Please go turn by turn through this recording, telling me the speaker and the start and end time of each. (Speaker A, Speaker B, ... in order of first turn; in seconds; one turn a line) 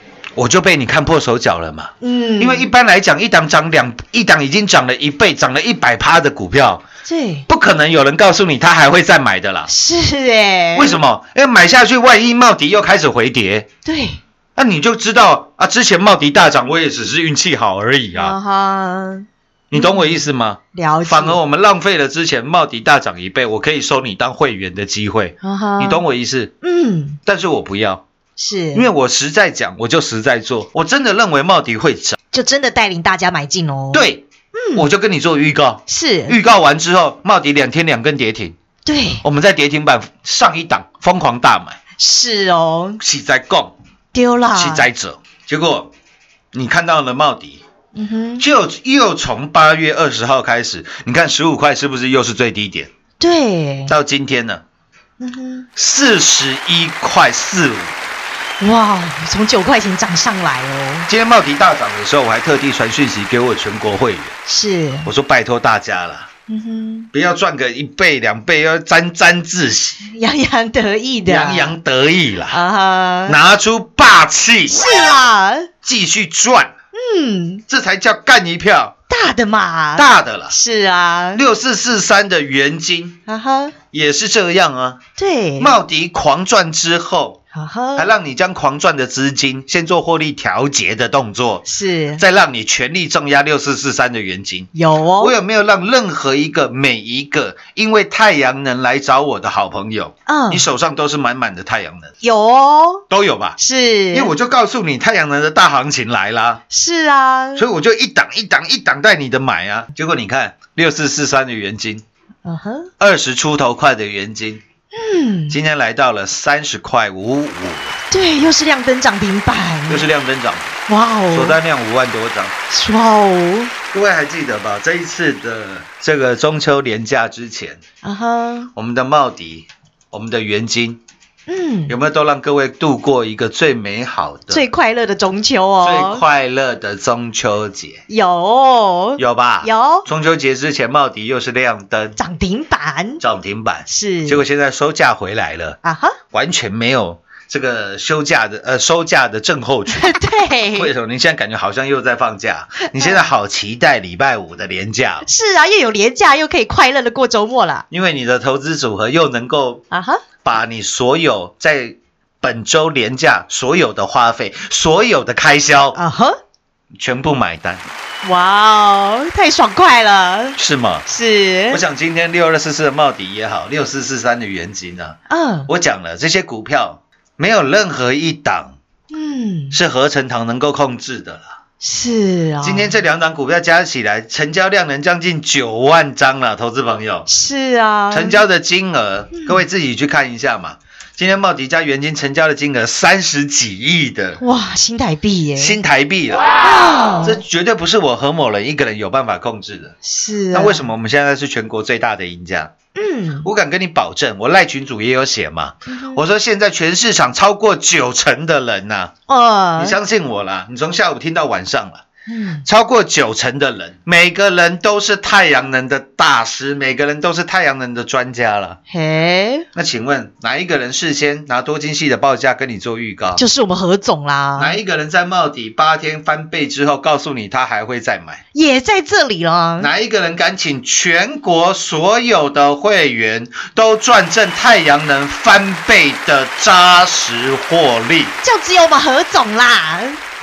Speaker A: 0.3-6.8
Speaker B: 2.0-2.7
Speaker B: 7.0-7.5
Speaker A: 7.5-9.7
Speaker B: 9.7-11.0
Speaker A: 10.7-13.7
Speaker B: 13.8-14.2
Speaker A: 14.6-18.4
Speaker B: 18.1-20.2
Speaker A: 19.7-26.5
Speaker B: 20.7-21.4
Speaker B: 25.4-26.0
Speaker B: 26.6-27.2
Speaker A: 27.2-28.0
Speaker B: 28.4-28.9
Speaker A: 28.7-32.2
Speaker B: 32.3-34.9
Speaker A: 33.9-38.6
Speaker B: 35.9-36.4
Speaker B: 38.9-39.2
Speaker A: 39.2-41.8
Speaker B: 42.0-43.0
Speaker A: 43.0-43.8
Speaker B: 44.1-44.9
Speaker A: 44.5-45.9
Speaker A: 46.5-47.6
Speaker B: 48.0-48.5
Speaker A: 48.4-52.9
Speaker B: 53.2-53.9
Speaker A: 53.9-54.6
Speaker B: 55.2-55.7
Speaker A: 55.8-58.0
Speaker B: 58.6-61.1
Speaker A: 61.1-64.4
Speaker B: 64.5-65.1
Speaker A: 65.0-66.3
Speaker B: 66.5-67.1
Speaker A: 67.1-70.0
Speaker B: 70.0-71.8
Speaker A: 71.3-72.6
Speaker B: 72.5-73.4
Speaker A: 73.3-74.8
Speaker B: 74.7-75.7
Speaker A: 75.8-76.7
Speaker B: 77.0-77.6
Speaker A: 77.7-79.0
Speaker B: 79.1-81.4
Speaker A: 80.0-80.5
Speaker A: 81.3-83.2
Speaker B: 83.3-83.8
Speaker A: 83.9-85.0
Speaker B: 85.2-85.8
Speaker A: 85.6-87.4
Speaker B: 87.5-88.1
Speaker A: 88.0-102.1
Speaker B: 91.7-92.2
Speaker B: 94.8-95.3
Speaker B: 100.3-100.6
Speaker B: 102.2-103.0
Speaker A: 103.1-103.6
Speaker B: 103.6-104.3
Speaker A: 104.1-106.6
Speaker B: 106.7-107.7
Speaker A: 107.6-112.0
Speaker B: 112.5-112.9
Speaker A: 113.0-114.6
Speaker B: 114.9-115.6
Speaker A: 115.5-118.0
Speaker B: 118.1-120.0
Speaker A: 119.9-120.8
Speaker B: 120.9-121.6
Speaker A: 121.3-122.6
Speaker B: 122.7-123.7
Speaker A: 123.9-127.8
Speaker B: 128.0-128.7
Speaker A: 128.8-131.0
Speaker B: 131.5-131.9
Speaker A: 131.9-134.7
Speaker B: 134.5-136.2
Speaker A: 135.8-138.0
Speaker B: 138.1-140.1
Speaker A: 139.2-142.2
Speaker B: 142.2-143.2
Speaker A: 143.2-145.8
Speaker B: 143.9-144.4
Speaker B: 145.8-146.2
Speaker A: 146.3-155.3
Speaker B: 149.9-150.9
Speaker B: 152.8-153.2
Speaker B: 155.2-157.8
Speaker A: 157.9-159.8
Speaker B: 159.9-160.2
Speaker A: 160.4-166.0
Speaker B: 165.9-166.4
Speaker A: 167.0-167.9
Speaker B: 168.2-171.8
Speaker A: 170.6-171.1
Speaker A: 171.7-178.8
Speaker B: 175.3-175.7
Speaker B: 179.1-179.8
Speaker A: 179.7-181.5
Speaker B: 181.8-182.9
Speaker A: 182.6-187.3
Speaker B: 187.3-188.4
Speaker A: 188.1-194.4
Speaker B: 189.3-189.6
Speaker B: 194.4-195.8
Speaker A: 195.6-196.5
Speaker B: 196.6-197.4
Speaker A: 197.2-200.0
Speaker B: 200.0-200.9
Speaker A: 200.5-202.7
Speaker B: 202.9-203.5
Speaker A: 203.4-209.1
Speaker B: 205.9-206.2
Speaker B: 209.3-210.0
Speaker A: 209.8-212.1
Speaker B: 212.3-212.7
Speaker A: 212.7-218.8
Speaker B: 218.9-219.7
Speaker A: 219.7-223.4
Speaker B: 223.4-224.8
Speaker A: 224.6-228.4
Speaker B: 228.5-229.9
Speaker A: 229.8-238.4
Speaker B: 238.4-240.2